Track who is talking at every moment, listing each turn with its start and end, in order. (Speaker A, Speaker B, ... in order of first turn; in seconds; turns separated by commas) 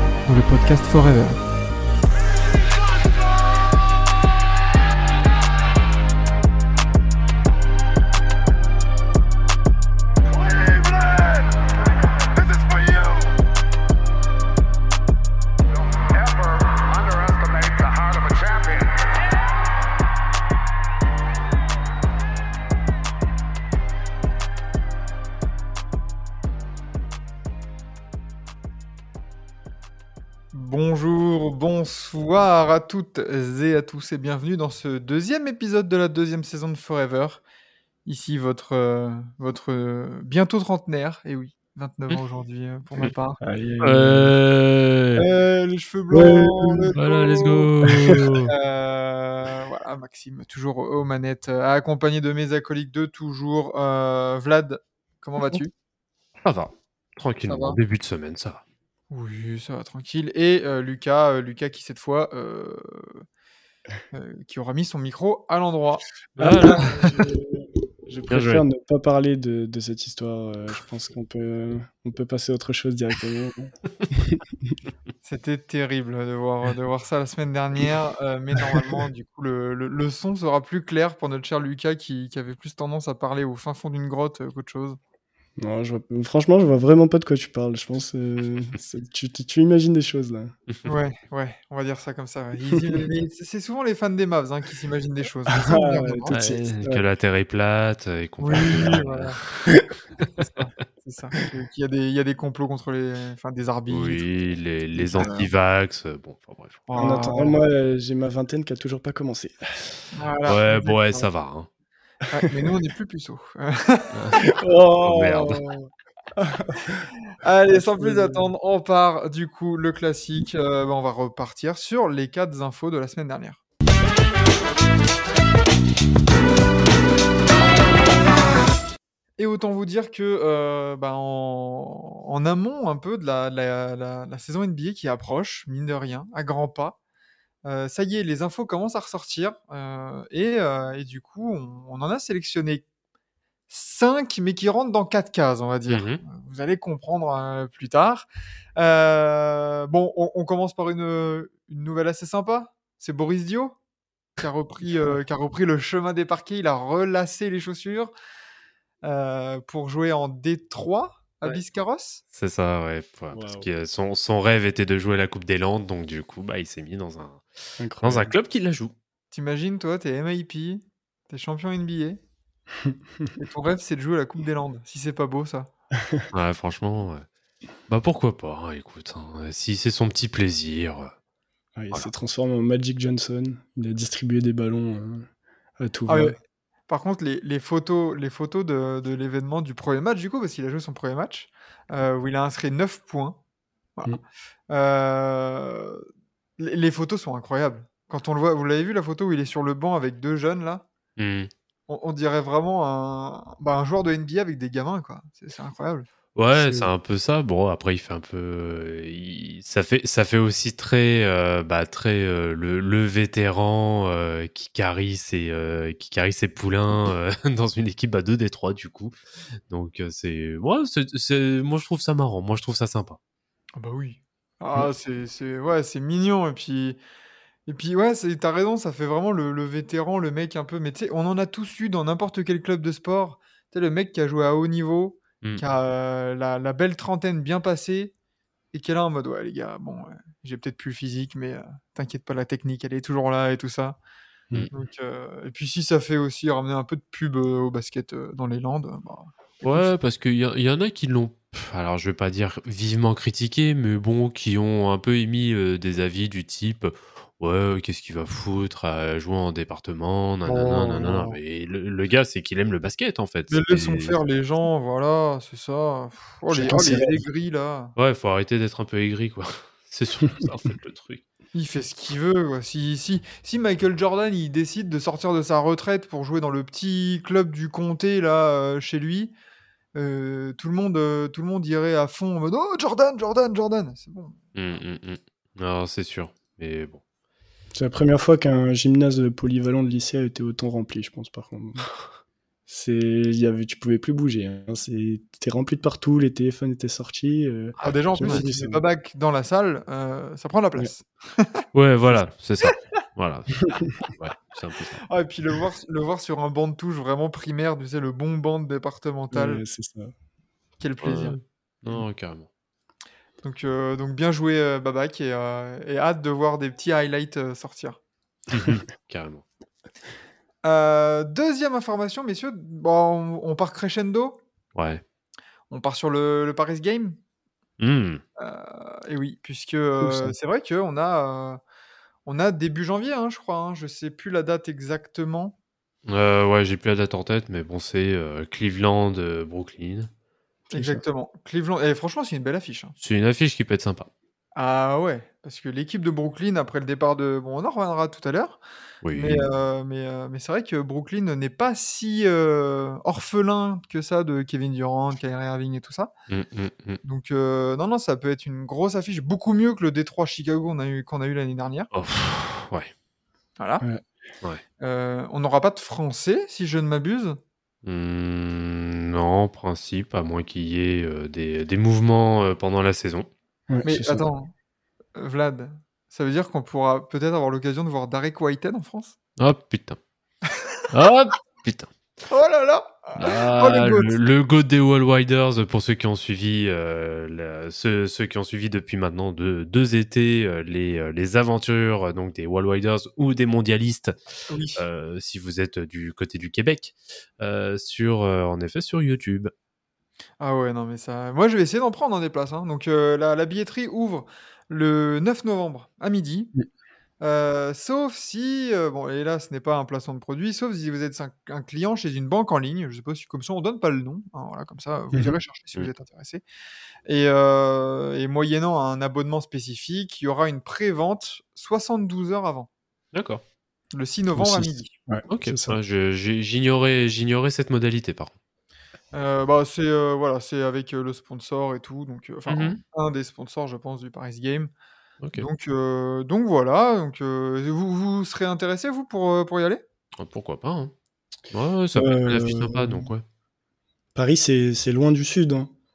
Speaker A: 0.3-1.4, Speaker A: 30.5-37.4, Speaker A: 38.0-43.4, Speaker B: 43.4-44.3, Speaker C: 43.8-45.2, Speaker A: 45.2-47.7, Speaker B: 46.1-46.9, Speaker C: 47.0-48.5, Speaker B: 47.8-48.3, Speaker A: 48.5-55.7, Speaker C: 56.4-58.6, Speaker A: 57.5-57.8, Speaker A: 59.1-63.2, Speaker A: 64.1-67.2, Speaker C: 66.4-67.0, Speaker B: 66.4-74.8, Speaker C: 68.3-68.7, Speaker A: 75.2-85.0, Speaker B: 85.6-90.5, Speaker A: 90.8-96.4, Speaker B: 95.6-97.0, Speaker C: 96.3-100.3, Speaker A: 98.4-99.4, Speaker A: 100.4-104.2, Speaker C: 103.9-106.8, Speaker A: 105.0-105.5, Speaker A: 106.9-107.6, Speaker B: 107.0-109.9, Speaker A: 110.1-111.3, Speaker C: 110.5-111.7, Speaker A: 112.3-114.4, Speaker C: 114.1-114.5, Speaker B: 114.4-115.7, Speaker C: 115.0-115.6, Speaker B: 116.4-117.1, Speaker A: 117.4-123.6, Speaker B: 117.7-118.5, Speaker A: 129.4-137.0, Speaker A: 137.7-142.8, Speaker A: 143.7-153.8, Speaker C: 145.9-146.2, Speaker A: 154.4-158.1, Speaker A: 159.0-162.2, Speaker C: 162.3-167.4, Speaker B: 163.3-163.7, Speaker B: 167.8-168.3, Speaker C: 168.0-168.9, Speaker A: 169.3-172.2, Speaker A: 173.3-175.7, Speaker C: 176.3-177.2, Speaker C: 177.9-181.1, Speaker B: 181.8-185.3, Speaker B: 185.8-186.4, Speaker A: 186.1-186.4, Speaker A: 186.9-193.4, Speaker A: 194.7-196.1, Speaker A: 196.6-200.9, Speaker C: 201.2-201.5, Speaker A: 201.9-206.1, Speaker C: 206.4-219.1, Speaker C: 219.7-223.2, Speaker A: 223.8-227.0, Speaker A: 227.7-238.1, Speaker A: 238.7-244.0, Speaker A: 244.7-249.9, Speaker C: 249.6-264.2, Speaker A: 260.5-261.4, Speaker A: 263.5-267.9, Speaker B: 266.5-267.2, Speaker C: 268.0-271.2, Speaker A: 271.5-279.3, Speaker A: 279.9-284.4, Speaker C: 284.6-287.0, Speaker B: 287.8-291.9, Speaker B: 292.7-298.8, Speaker C: 297.8-298.4, Speaker A: 297.8-301.6, Speaker C: 301.7-305.1, Speaker A: 305.1-309.6, Speaker B: 309.3-310.1, Speaker A: 310.8-311.4, Speaker C: 311.0-312.5, Speaker A: 313.4-318.0, Speaker C: 318.5-319.4, Speaker A: 320.6-324.4, Speaker C: 324.8-325.0, Speaker A: 325.7-327.2, Speaker C: 327.8-328.2, Speaker A: 328.4-331.6, Speaker B: 330.0-330.3, Speaker A: 332.3-335.6, Speaker C: 336.1-340.1, Speaker B: 340.7-341.0, Speaker A: 340.7-342.9, Speaker C: 343.0-344.1, Speaker A: 344.6-348.6, Speaker C: 349.0-349.5, Speaker A: 349.1-356.1, Speaker C: 356.3-357.0, Speaker A: 357.0-361.9, Speaker C: 361.9-362.9, Speaker A: 363.6-363.9, Speaker A: 364.8-367.4, Speaker C: 367.8-373.3, Speaker B: 373.7-374.2, Speaker A: 373.8-374.5, Speaker A: 375.2-379.2, Speaker C: 379.4-380.0, Speaker C: 380.9-381.9, Speaker A: 382.3-384.2, Speaker C: 383.2-394.1, Speaker A: 394.5-394.8, Speaker C: 394.8-399.5, Speaker A: 400.4-406.5, Speaker A: 407.2-416.4, Speaker A: 417.1-422.7, Speaker C: 423.1-423.4, Speaker A: 423.9-424.9, Speaker B: 424.4-425.8, Speaker C: 425.3-428.3, Speaker A: 429.1-434.7, Speaker C: 432.5-432.8, Speaker A: 435.4-439.8, Speaker C: 440.2-440.9, Speaker C: 441.5-443.2, Speaker B: 442.0-443.1, Speaker B: 444.1-445.7